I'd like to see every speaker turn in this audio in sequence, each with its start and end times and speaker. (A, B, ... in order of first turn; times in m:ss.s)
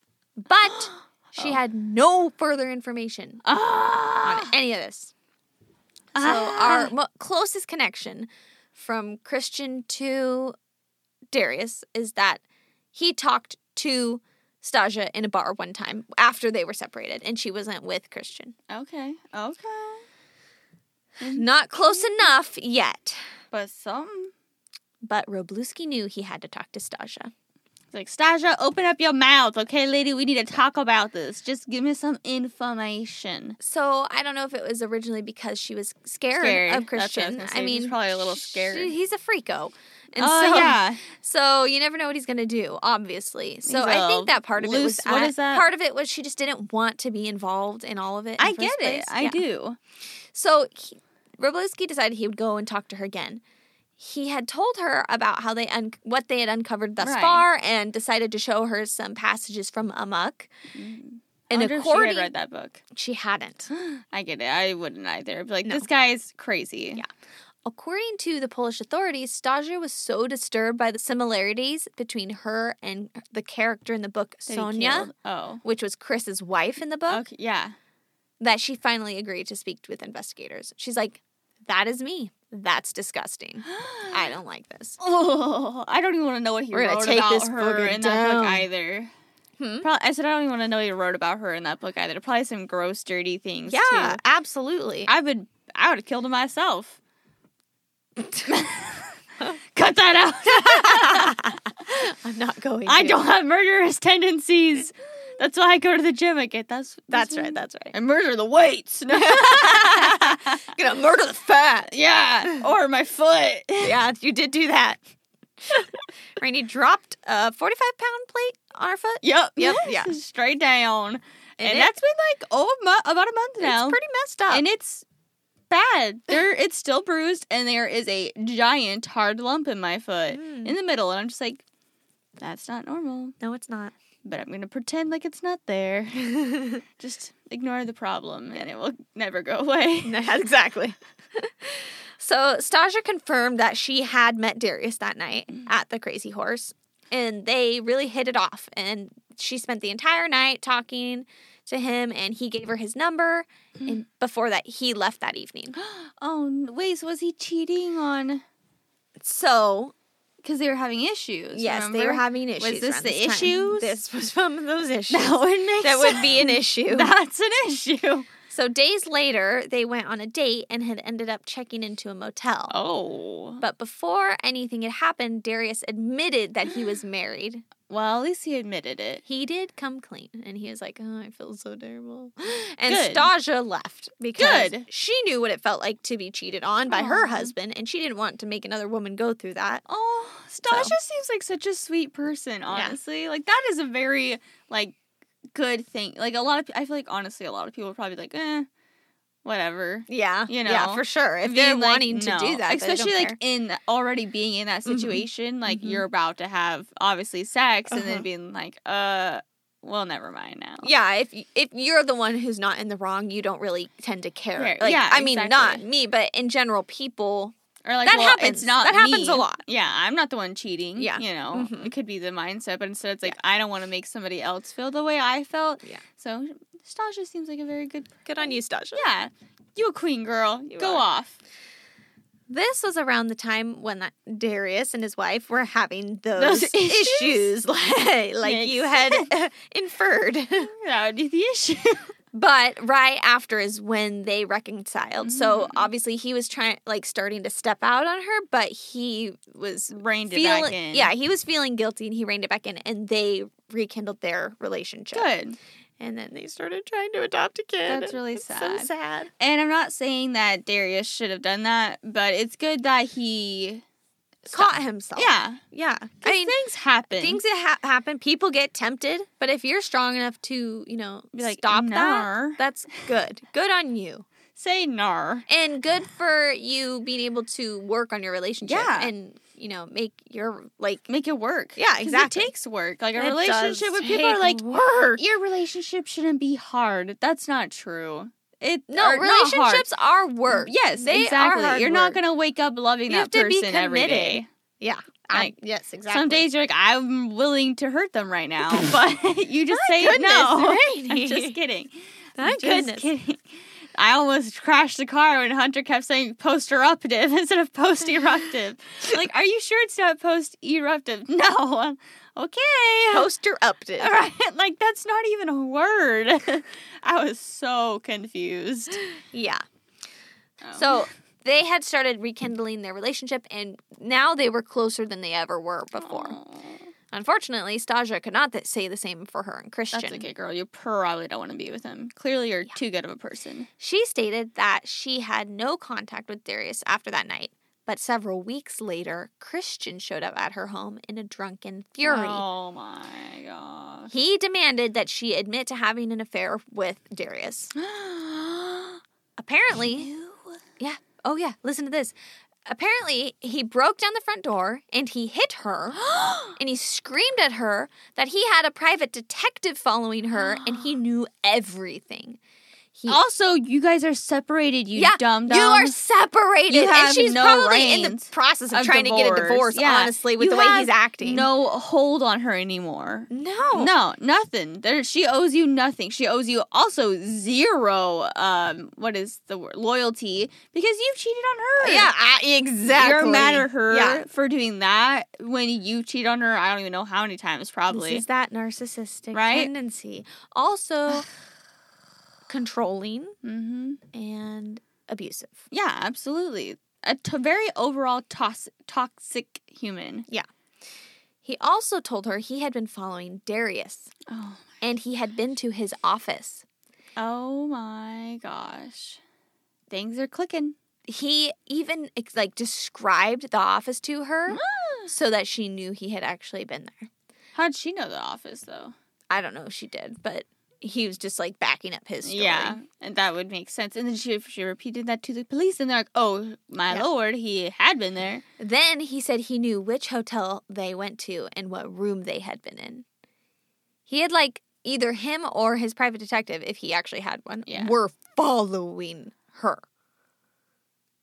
0:00.4-0:03.4 A
0:00.6-0:01.6 B
0:03.4-0:04.5 B
0:04.2-0:05.1 A
0:06.1-0:06.9 B
0:06.2-0:10.6 A
0:11.3-0:12.4 A
0:12.9-0:18.6 A
0:18.7-0:20.0 B
0:21.2-0:22.3 B
0:21.3-0:23.2 A
0:23.5-0:24.3 B
0:25.0-0:27.3 A
0:27.9-0:33.6 B
0:33.6-0:49.4 A
0:36.4-0:38.9 B
0:40.2-0:41.0 B
0:43.6-0:45.7 B
0:48.4-0:49.8 B
0:50.3-0:53.4 A
0:54.0-1:00.5 A
0:57.0-0:57.5 B
1:00.7-1:02.8 B
1:01.5-1:02.3 A
1:02.9-1:03.7 A
1:03.7-1:07.0 B
1:07.6-1:15.1 A
1:14.5-1:15.6 B
1:15.6-1:17.2 A
1:17.1-1:17.8 B
1:18.4-1:25.0 A
1:23.6-1:24.3 B
1:25.0-1:29.1 B
1:26.7-1:28.7 A
1:29.6-1:29.9 A
1:29.8-1:34.2 B
1:33.7-1:35.1 A
1:35.1-1:37.0 B
1:38.4-1:39.2 B
1:39.7-1:41.5 B
1:40.7-1:43.2 A
1:42.9-1:50.6 B
1:47.1-1:48.0 A
1:49.1-1:51.9 A
1:51.9-1:54.0 B
1:53.8-1:55.0 A
1:55.6-2:00.2 A
1:59.2-2:04.0 B
2:01.6-2:02.0 A
2:03.6-2:04.6 A
2:04.5-2:05.0 B
2:05.7-2:11.6 B
2:10.3-2:10.8 A
2:12.4-2:13.4 B
2:13.4-2:13.9 A
2:14.2-2:20.3 B
2:16.4-2:16.8 A
2:20.0-2:35.8 A
2:35.7-2:38.4 B
2:39.2-2:39.9 A
2:40.4-2:44.0 B
2:41.5-2:47.1 A
2:45.1-2:48.3 B
2:48.5-2:52.8 A
2:52.7-2:53.6 B
2:53.6-2:57.6 A
2:57.9-2:59.2 B
2:59.2-3:09.8 A
3:02.9-3:03.3 B
3:04.4-3:04.9 B
3:06.9-3:07.5 B
3:09.9-3:15.0 B
3:10.7-3:11.0 A
3:12.7-3:13.0 A
3:15.5-3:18.7 B
3:19.4-3:30.9 B
3:20.1-3:23.4 A
3:24.9-3:26.0 A
3:27.9-3:28.2 A
3:30.8-3:39.6 A
3:34.6-3:35.8 B
3:37.8-3:51.4 B
3:41.0-3:41.9 A
3:48.2-3:49.0 A
3:50.7-3:51.0 A
3:52.5-4:00.7 A
3:56.4-3:57.5 B
3:58.4-3:59.3 B
4:00.6-4:02.1 B
4:02.3-4:15.3 A
4:05.2-4:05.9 B
4:09.9-4:11.1 B
4:15.1-4:15.6 B
4:16.0-4:19.3 A
4:17.9-4:23.8 B
4:24.5-4:25.6 B
4:24.5-4:26.6 A
4:26.2-4:27.4 B
4:27.1-4:34.3 A
4:31.4-4:32.6 B
4:34.6-4:35.5 B
4:35.5-4:41.1 A
4:38.6-4:39.1 B
4:41.1-4:49.9 B
4:41.8-4:42.5 A
4:43.2-4:45.2 A
4:48.9-4:52.2 A
4:50.5-4:54.5 B
4:53.1-4:56.5 A
4:56.1-5:13.3 B
4:59.7-5:01.6 A
5:02.4-5:03.1 A
5:13.1-5:14.1 A
5:14.0-5:19.0 B
5:19.2-5:19.6 A
5:20.6-5:21.1 B
5:20.8-5:26.4 A
5:26.0-5:26.9 B
5:27.1-5:30.3 A
5:29.9-5:33.7 B
5:33.8-5:42.4 A
5:42.0-5:44.1 B
5:44.1-5:47.7 A
5:47.8-5:49.0 B
5:49.4-5:50.1 A
5:49.7-5:50.6 B
5:50.8-5:52.2 A
5:52.7-5:56.0 A
5:55.9-5:56.6 B
5:56.6-6:02.4 A
6:00.4-6:01.0 B
6:03.0-6:03.2 A
6:03.1-6:06.0 B
6:05.0-6:11.5 A
6:06.7-6:22.1 B
6:13.3-6:13.9 A
6:21.8-6:24.2 A
6:22.9-6:28.2 B
6:27.9-6:31.3 A
6:29.3-6:29.7 B
6:32.5-6:33.4 A
6:33.4-6:34.0 B
6:34.1-6:35.6 A
6:35.7-6:40.3 B
6:41.4-6:44.1 A
6:44.3-6:44.7 B
6:44.8-6:46.6 A
6:47.2-6:49.2 B
6:49.9-6:50.8 B
6:51.1-6:57.1 A
6:54.5-6:55.1 B
6:57.6-6:59.0 B
6:59.3-7:02.8 A
7:02.2-7:08.4 B
7:08.6-7:13.0 A
7:14.1-7:19.8 A
7:17.7-7:17.9 B